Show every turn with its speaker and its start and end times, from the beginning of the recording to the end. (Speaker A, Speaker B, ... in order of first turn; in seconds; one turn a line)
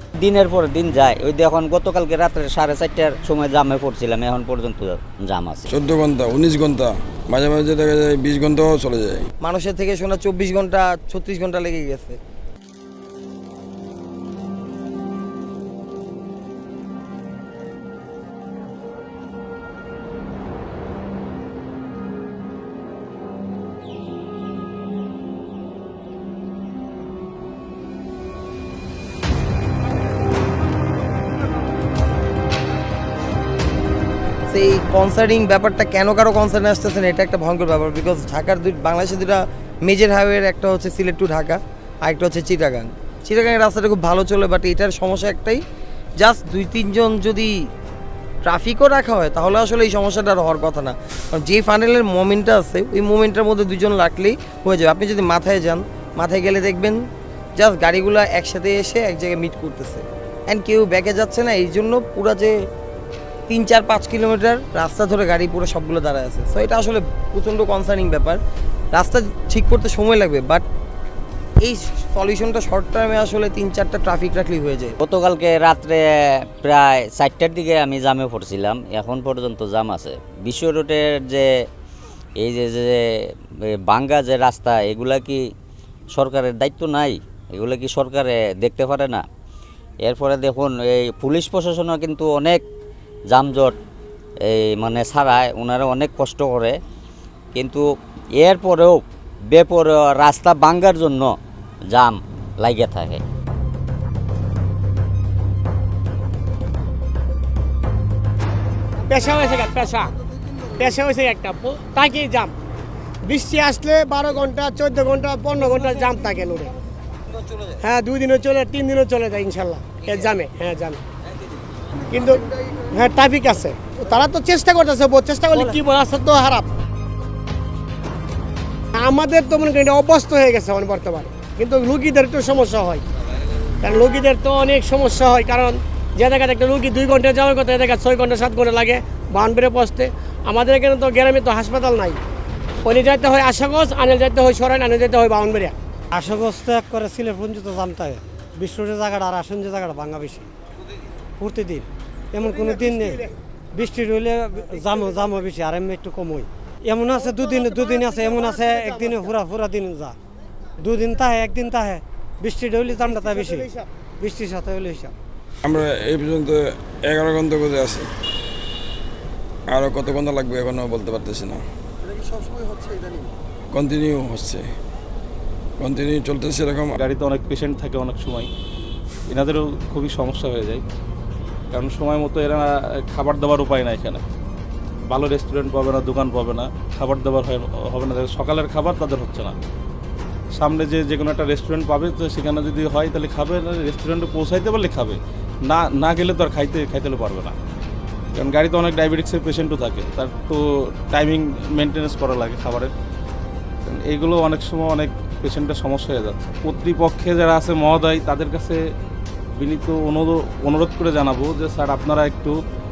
Speaker A: 0.2-5.7
Speaker B: 5.7-9.3
Speaker C: 9.4-12.2
Speaker C: 34.5-45.6
Speaker C: 46.2-47.5
Speaker C: 48.4-57.0
Speaker C: 57.6-62.5
Speaker C: 63.5-68.4
Speaker C: 68.9-70.7
Speaker C: 71.6-75.0
Speaker A: 75.0-81.7
Speaker A: 82.4-85.5
Speaker A: 86.1-89.2
Speaker A: 90.0-92.6
Speaker A: 93.3-93.8
Speaker A: 94.4-96.8
Speaker A: 97.5-97.8
Speaker A: 98.4-101.3
Speaker A: 101.9-103.2
Speaker D: 109.1-110.2
Speaker D: 110.7-112.5
Speaker D: 113.3-116.7
Speaker D: 117.7-121.0
Speaker D: 122.1-126.7
Speaker D: 128.9-133.0
Speaker D: 133.8-142.2
Speaker D: 142.8-145.8
Speaker E: 146.1-150.5
Speaker E: 151.4-160.2
Speaker D: 157.9-159.0
Speaker E: 160.8-165.2
Speaker D: 163.4-163.9
Speaker B: 165.6-168.1
Speaker B: 169.7-171.6
Speaker C: 172.1-173.1
Speaker B: 173.7-174.7
Speaker B: 175.8-176.9
Speaker F: 177.0-178.5
Speaker F: 179.3-180.8
Speaker F: 181.7-184.2
Speaker F: 185.1-189.6
Speaker F: 190.6-197.6
Speaker F: 198.3-202.9
Speaker F: 203.9-208.8
Speaker F: 209.6-212.6